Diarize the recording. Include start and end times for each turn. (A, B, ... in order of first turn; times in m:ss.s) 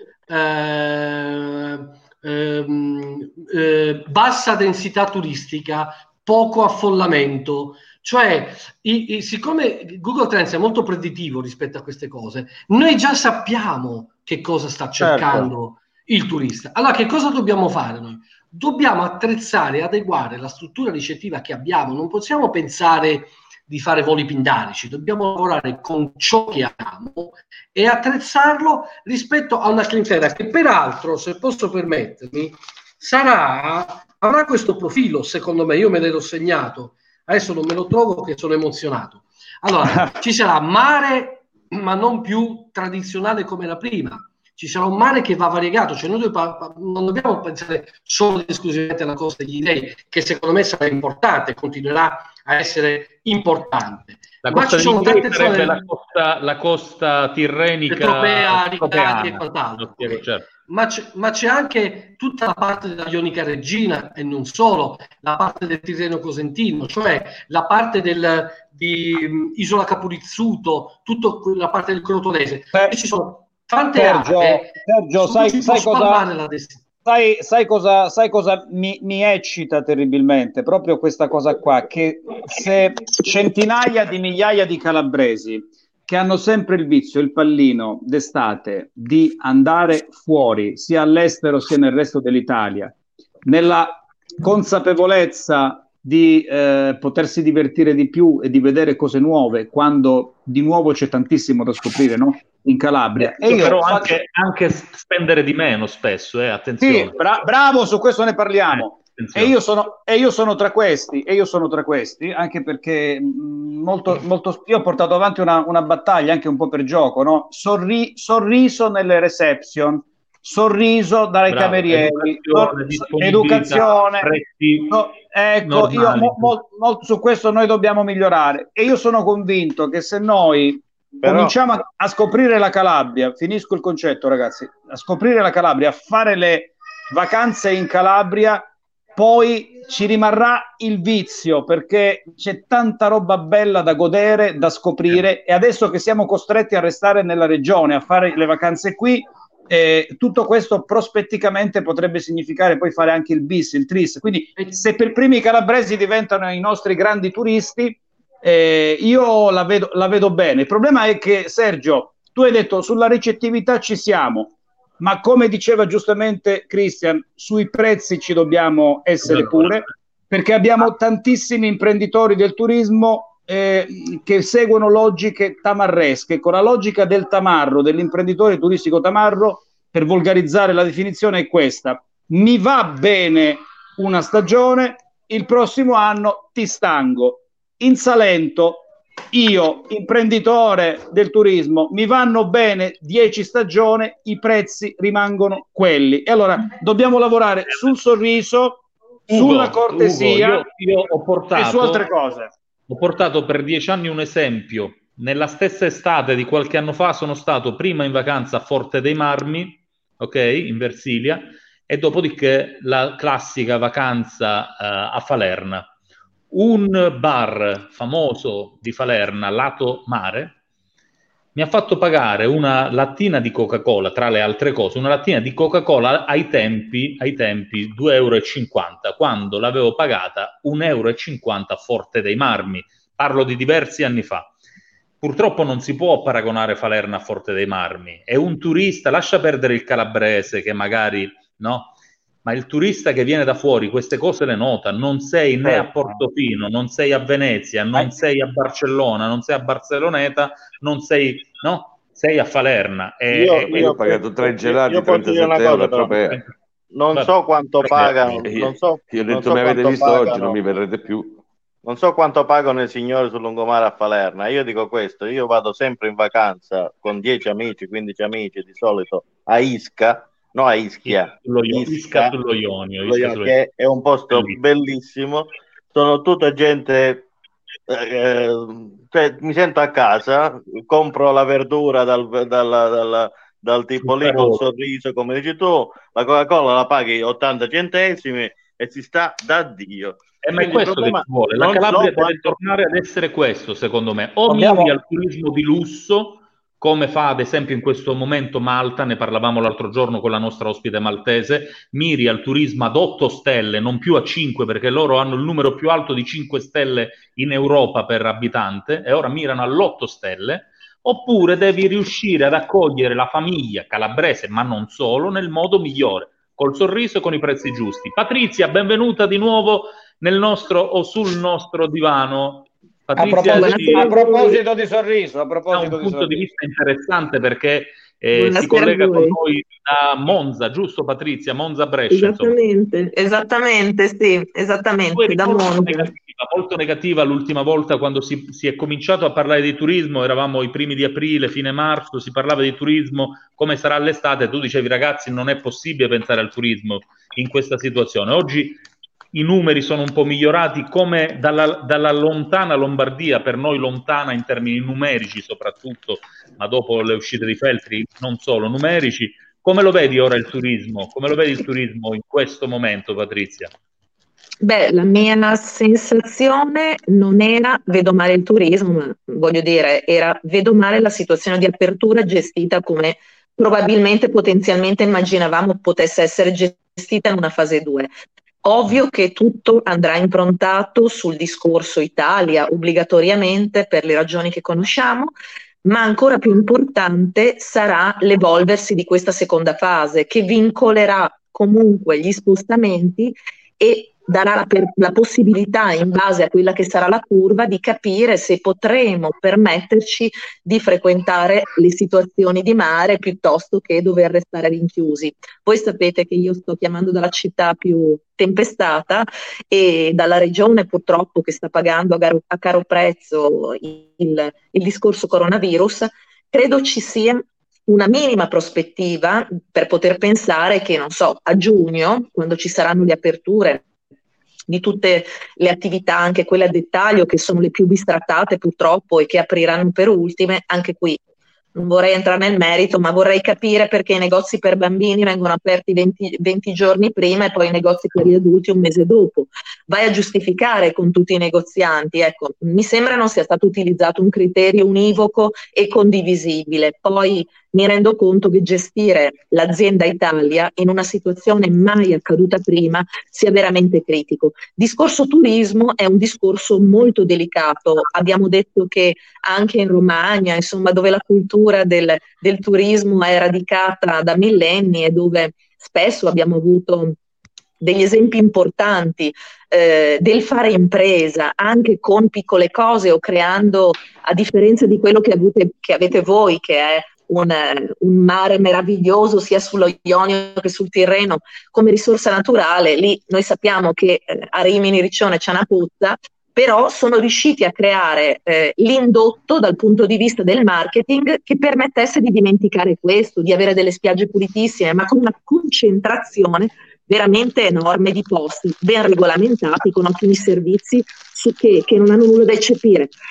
0:00.3-0:55.7 A
0:15.0-0:15.5 B
0:54.4-1:00.5 C
0:57.9-1:16.8 A
1:13.9-1:16.3 B
1:17.0-1:44.2 B
1:43.2-1:47.2 C
1:46.8-2:04.3 B
1:48.7-1:49.5 C
2:01.5-2:05.0 C
2:04.9-3:20.6 B
2:05.6-2:06.5 C
2:11.2-2:11.5 D
2:49.2-2:49.8 C
3:19.3-3:22.0 C
3:21.5-3:22.5 B
3:22.9-3:35.9 C
3:36.5-3:40.6 C
3:41.5-3:54.5 C
3:55.2-4:01.9 C
4:02.4-4:13.9 C
4:13.3-4:16.3 D
4:13.6-4:16.4 E
4:16.9-4:20.8 D
4:17.8-4:18.4 C
4:18.4-4:21.4 E
4:21.8-4:32.3 D
4:31.0-4:33.6 C
4:33.0-4:37.3 D
4:34.3-4:34.6 C
4:37.9-4:52.6 D
4:44.0-4:44.6 C
4:50.4-5:24.1 C
4:54.5-4:54.9 B
5:23.2-5:26.4 B
5:23.2-5:24.6 F
5:25.7-5:32.5 C
5:28.3-5:29.4 F
5:32.1-5:36.1 F
5:35.1-5:48.8 C
5:49.3-6:03.7 C
6:04.6-6:18.1 F
6:18.6-6:25.3 F
6:25.8-7:03.8 F
7:04.7-7:11.2 F
7:11.7-7:47.2 F
7:47.8-8:23.1 F